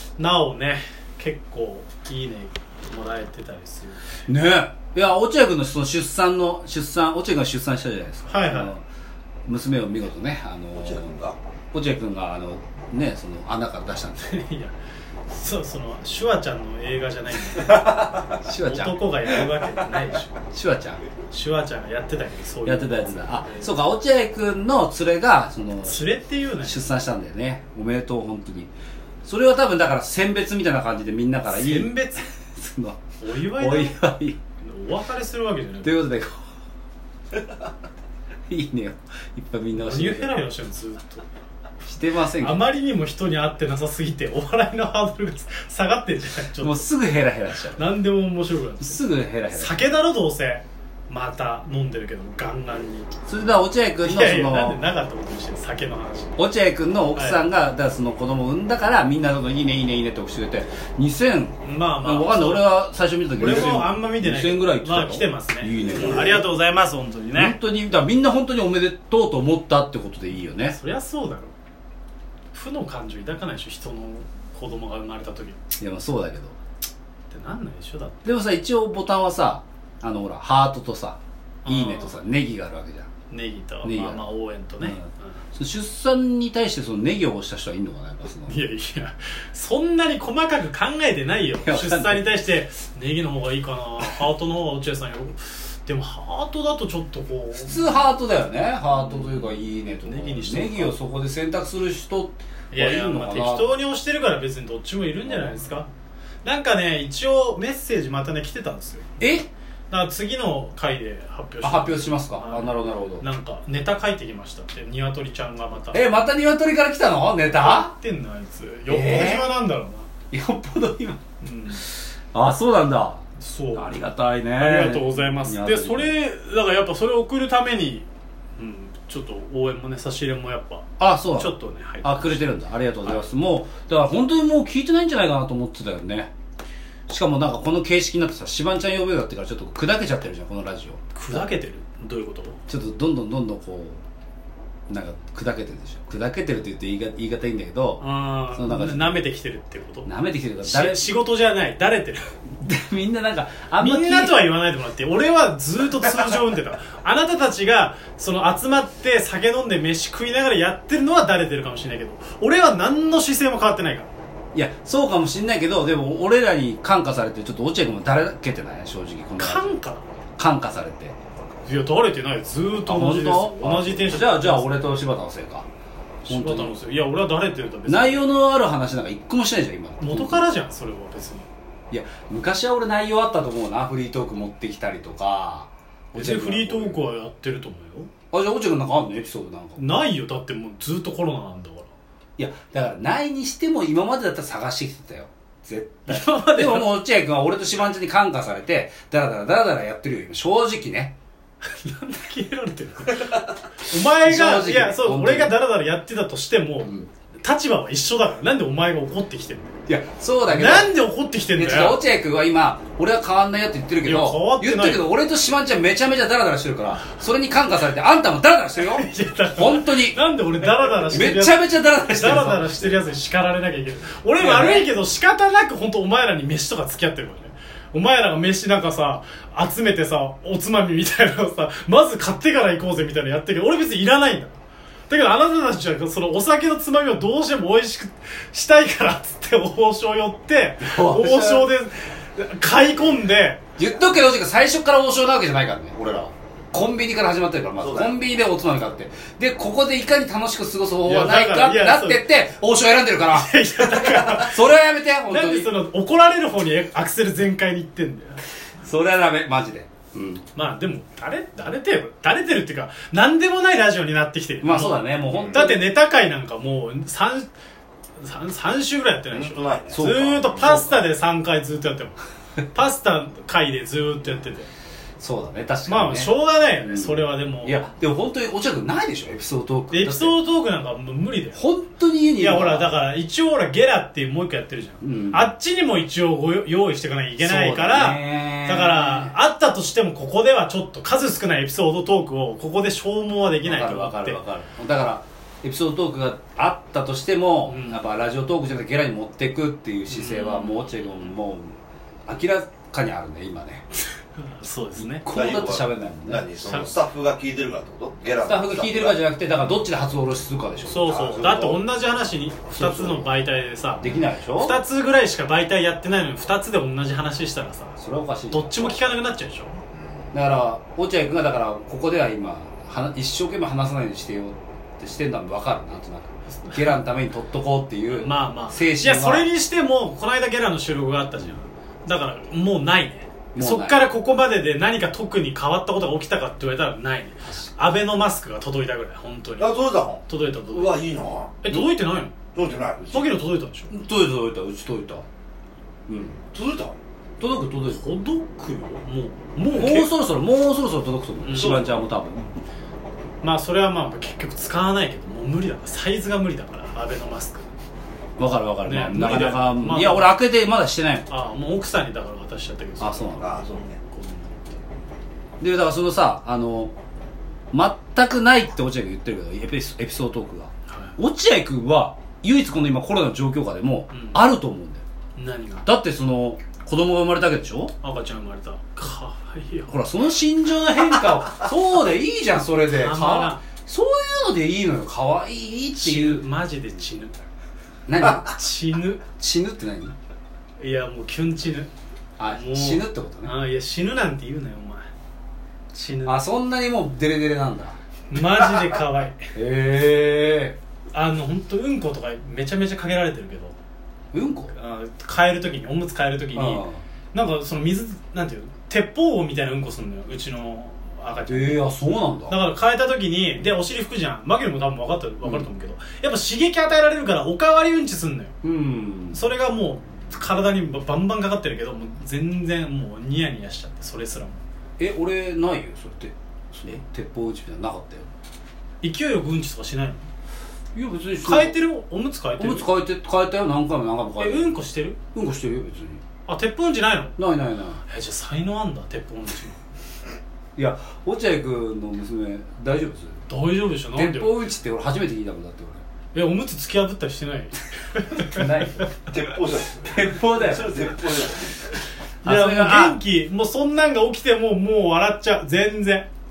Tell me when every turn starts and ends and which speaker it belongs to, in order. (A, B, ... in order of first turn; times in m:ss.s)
0:00.2-0:04.0 A
0:04.3-0:08.8 B
0:08.3-0:08.7 A
0:09.4-0:11.2 B
0:10.8-0:11.4 C
0:11.7-0:14.4 B
0:14.2-0:14.7 A
0:15.3-0:20.4 A
0:18.1-0:19.4 B
0:20.5-0:21.0 B
0:21.3-0:23.7 A
0:22.6-0:26.1 B
0:25.8-0:26.8 A
0:26.6-0:28.7 B
0:29.2-0:34.4 B
0:31.5-0:32.3 A
0:33.2-0:34.0 A
0:34.6-0:36.0 A
0:35.8-0:36.4 B
0:38.5-0:40.4 B
0:39.8-0:41.2 A
0:41.8-0:42.6 B
0:42.4-0:46.9 A
0:46.6-0:47.9 B
0:47.7-0:53.1 A
0:48.8-0:49.8 B
0:53.3-0:54.8 B
0:54.0-0:56.4 A
0:56.4-1:06.4 B
0:57.1-0:57.4 A
1:01.6-1:02.7 A
1:03.4-1:07.6 A
1:07.3-1:10.8 B
1:10.7-1:11.5 A
1:12.5-1:15.6 A
1:15.8-1:16.6 B
1:17.3-1:18.2 A
1:18.2-1:23.1 B
1:21.6-1:22.2 A
1:23.3-1:25.4 A
1:23.8-1:24.2 B
1:24.8-1:28.6 B
1:28.4-1:38.0 A
1:31.6-1:32.3 B
1:37.6-1:43.7 B
1:38.9-1:40.9 A
1:42.7-1:45.9 A
1:46.4-1:49.1 A
1:49.2-1:49.5 B
1:49.9-1:56.0 A
1:51.6-1:53.2 B
1:55.9-1:57.9 B
1:57.5-2:00.1 A
1:58.9-1:59.5 B
2:00.3-2:01.2 B
2:01.4-2:01.8 A
2:01.9-2:06.1 B
2:03.4-2:04.0 A
2:04.5-2:13.2 A
2:11.0-2:16.3 B
2:17.1-2:21.4 B
2:21.1-2:22.6 A
2:22.7-2:24.0 B
2:24.9-2:29.2 B
2:28.0-2:30.1 A
2:30.0-2:31.0 B
2:30.6-2:32.4 A
2:32.6-2:34.4 B
2:33.8-2:44.1 A
2:44.5-2:49.8 B
2:49.4-2:50.0 A
2:50.4-2:51.2 B
2:51.6-2:54.8 A
2:52.8-2:55.6 B
2:56.2-2:58.2 A
2:56.3-2:56.8 B
2:57.9-3:00.4 B
3:00.0-3:01.5 A
3:01.9-3:07.1 B
3:06.1-3:08.1 A
3:08.3-3:09.8 B
3:09.8-3:11.9 A
3:12.4-3:21.1 B
3:16.1-3:16.9 A
3:21.6-3:29.8 A
3:24.1-3:25.5 B
3:29.9-3:31.0 B
3:30.5-3:32.0 A
3:31.5-3:40.2 B
3:34.0-3:35.0 A
3:38.8-3:54.6 A
3:40.9-3:43.0 B
3:44.4-3:44.9 B
3:55.1-4:03.6 A
4:00.8-4:01.7 B
4:03.8-4:15.7 B
4:07.8-4:08.1 C
4:11.0-4:12.2 A
4:13.3-4:14.6 A
4:15.3-4:18.4 A
4:18.8-4:20.4 B
4:20.5-4:27.5 A
4:24.6-4:25.8 B
4:25.3-4:25.6 C
4:28.2-4:32.2 A
4:29.3-4:30.8 C
4:29.9-4:30.9 B
4:32.7-4:34.7 A
4:35.2-4:40.4 B
4:35.9-4:37.8 A
4:39.9-4:41.6 A
4:41.5-4:42.9 B
4:42.4-4:54.4 A
4:45.0-4:45.5 B
4:47.4-4:49.3 B
4:53.6-5:01.7 B
4:57.6-4:58.0 A
5:00.1-5:01.0 A
5:02.2-5:03.9 B
5:04.4-5:05.3 A
5:05.0-5:06.4 B
5:05.3-5:09.2 C
5:08.4-5:11.6 B
5:10.8-5:18.0 A
5:11.0-5:11.8 C
5:12.7-5:13.2 B
5:14.0-5:14.8 B
5:18.0-5:19.1 B
5:18.5-5:19.8 A
5:20.3-5:29.5 B
5:26.6-5:26.8 A
5:28.1-5:39.7 A
5:33.5-5:34.1 B
5:39.6-5:41.6 C
5:40.3-5:41.0 A
5:41.6-5:42.4 A
5:42.5-5:43.2 C
5:43.1-5:43.9 A
5:43.9-5:45.2 B
5:46.1-5:46.4 B
5:46.5-5:47.0 C
5:47.4-5:48.0 B
5:47.9-5:50.1 A
5:49.7-5:52.6 B
5:51.4-5:52.0 A
5:51.5-5:51.9 C
5:53.4-5:57.7 A
5:58.4-6:01.3 B
5:58.8-6:00.3 A
6:01.3-6:04.7 A
6:03.0-6:03.6 B
6:03.3-6:04.0 C
6:05.6-6:06.9 B
6:07.7-6:15.0 B
6:10.9-6:11.2 A
6:14.1-6:14.4 A
6:15.4-6:15.9 A
6:15.8-6:17.9 B
6:18.0-6:20.0 A
6:19.9-6:26.4 B
6:22.9-6:23.6 A
6:25.9-6:27.4 A
6:28.1-6:28.5 B
6:28.2-6:29.2 A
6:29.2-6:30.2 B
6:30.8-6:31.9 A
6:32.4-6:33.5 B
6:32.5-6:35.1 A
6:35.9-6:36.4 A
6:36.2-6:38.0 B
6:38.3-6:39.5 A
6:39.5-6:40.8 B
6:41.1-6:43.7 A
6:44.3-6:44.7 B
6:44.7-6:51.8 A
6:46.5-6:47.0 B
6:51.5-6:52.6 B
6:52.5-6:58.5 A
6:58.6-6:59.4 B
6:59.3-7:04.6 A
7:05.0-7:08.3 B
7:09.0-7:10.2 A
7:10.9-7:11.8 B
7:11.4-7:12.9 A
7:12.6-7:14.7 B
7:14.4-7:15.2 A
7:15.3-7:16.2 B
7:16.5-7:17.4 A
7:17.4-7:18.0 B
7:18.0-7:19.8 A
7:20.8-7:23.4 B
7:23.5-7:24.6 A
7:24.1-7:26.0 B
7:26.3-7:29.0 A
7:28.4-7:29.1 B
7:29.2-7:32.0 C
7:29.8-7:31.1 B
7:32.4-7:36.3 A
7:32.4-7:33.2 B